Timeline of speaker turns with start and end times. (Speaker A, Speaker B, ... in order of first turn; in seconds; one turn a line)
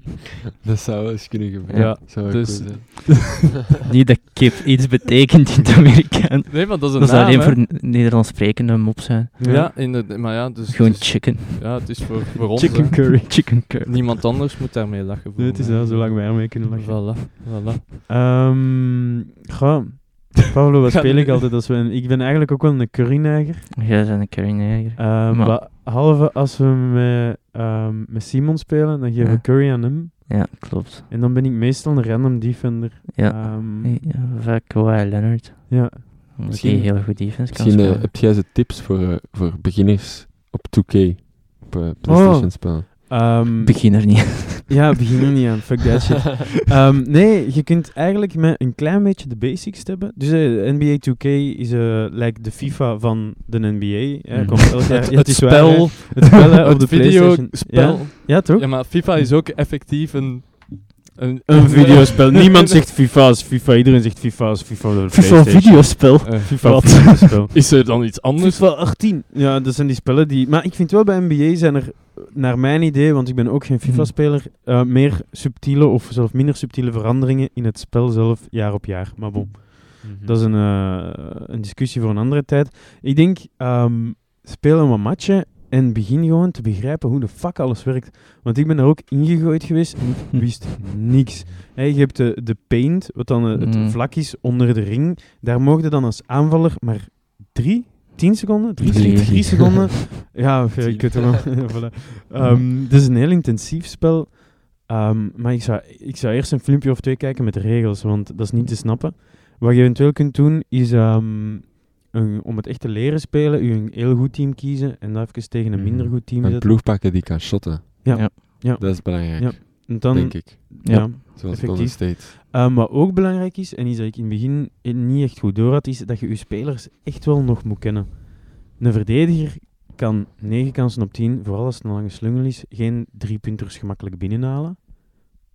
Speaker A: 0.6-3.4
Speaker B: 1.7-2.6
Speaker C: 1.7-3.0
Speaker B: 3.8-9.4
Speaker C: 6.5-7.6
Speaker D: 9.4-9.7
Speaker C: 9.4-17.9
Speaker B: 10.7-14.2
Speaker D: 15.4-17.5
Speaker D: 18.1-23.7
Speaker C: 20.9-21.4
Speaker B: 23.8-25.6
Speaker D: 25.0-34.0
Speaker B: 29.2-31.1
Speaker B: 33.1-38.1
Speaker D: 35.7-36.6
Speaker A: 36.5-42.9
Speaker D: 42.0-58.8
Speaker B: 43.6-44.9
Speaker A: 54.3-54.6
Speaker C: 54.9-62.7
Speaker D: 61.5-116.8
Speaker B: 65.1-67.4
Speaker C: 66.2-68.7
Speaker B: 73.8-74.1
Speaker A: 80.0-80.4
Speaker B: 93.6-94.0
Speaker A: 98.8-99.9
Speaker B: 98.9-99.5
Speaker A: 100.8-101.2
Speaker B: 102.4-102.7
Speaker A: 115.7-122.3
Speaker D: 118.0-134.8
Speaker B: 120.8-121.1